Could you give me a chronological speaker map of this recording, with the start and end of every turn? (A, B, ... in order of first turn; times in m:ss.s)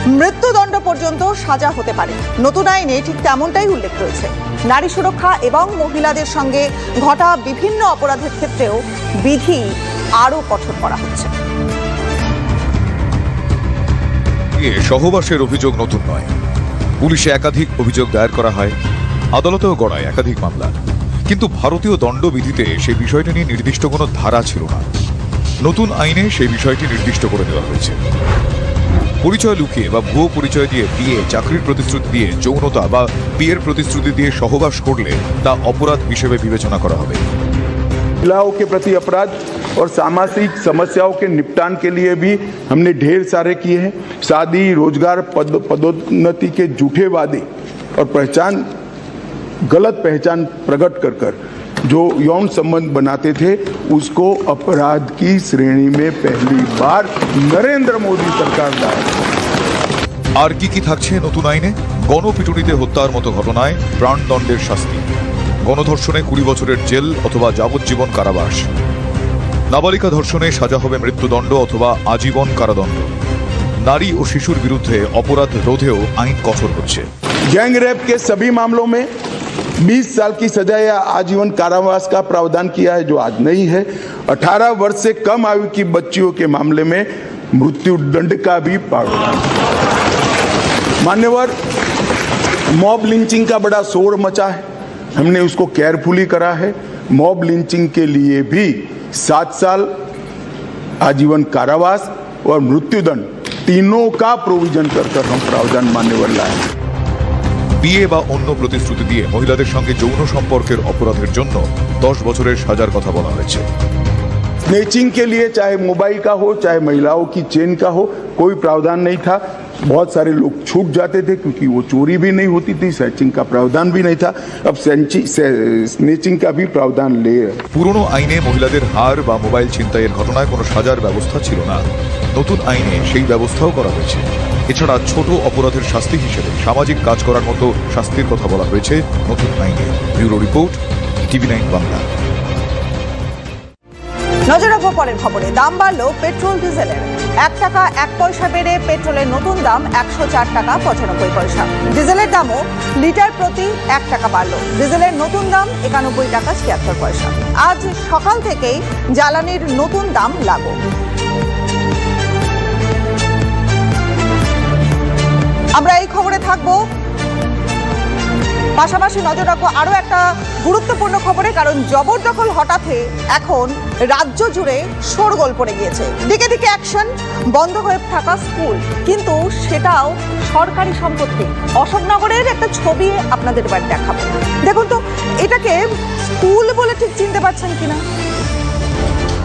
0:00.2-0:09.7 A
0:10.2-0:11.3 A
0:14.6-0:16.3 B
0:17.0-0:18.8 B
0:19.3-0:24.8 B
0:25.6-0:28.0 B
0:29.2-0:37.2 B
0:38.2-0:48.7 C
0:49.6-0:59.1 C
1:00.4-1:05.0 B
1:05.6-1:08.7 B
1:09.7-1:13.1 B
1:13.8-1:17.1 B
1:17.5-1:19.1 C
1:19.8-1:29.4 C
1:31.0-1:31.6 C
1:32.7-1:34.6 C
1:35.2-1:39.9 C
1:41.0-1:46.7 C
1:47.8-1:53.7 B
1:54.7-2:07.6 C
2:07.7-2:22.1 B
2:24.5-2:40.8 A
2:45.8-2:46.8 A
2:48.8-3:08.0 A